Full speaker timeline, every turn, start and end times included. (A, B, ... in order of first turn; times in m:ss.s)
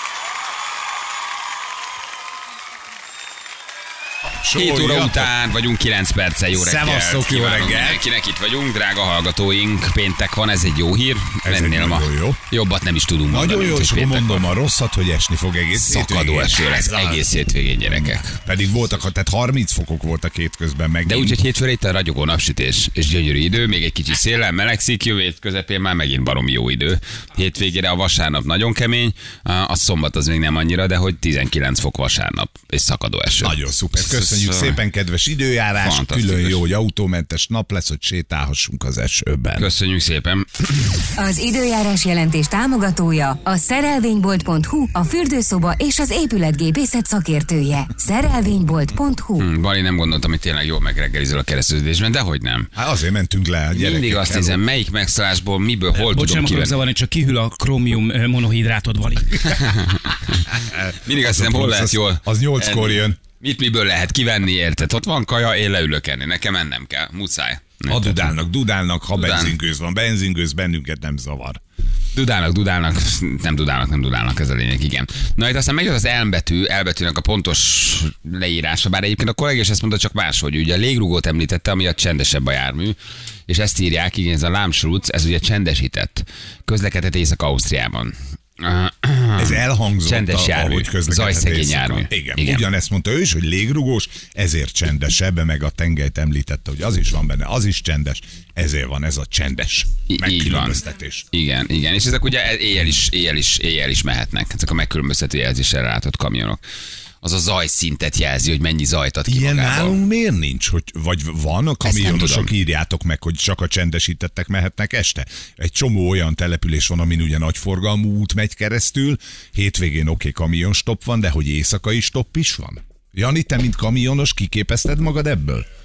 0:04.4-0:05.3 A
0:04.5-0:14.6 B
0:06.5-0:08.0 A
0:11.4-0:12.4 A
0:13.3-0:17.3 A
0:15.7-0:18.3 B
0:17.8-0:21.4 A
0:21.0-0:34.8 B
0:33.4-0:39.7 A
0:35.8-0:36.6 B
0:39.6-0:41.0 B
0:41.2-0:49.4 C
0:49.4-0:52.7 B
0:52.8-0:54.6 A
0:53.7-0:56.8 B
0:55.9-0:59.6 D
0:59.5-1:08.3 B
1:00.6-1:03.2 A
1:07.9-1:11.6 A
1:09.2-1:09.5 B
1:12.1-1:23.0 B
1:23.5-1:32.6 B
1:29.4-1:41.2 A
1:40.1-1:46.6 B
1:47.2-1:50.0 B
1:49.3-2:05.6 A
1:51.8-1:52.5 B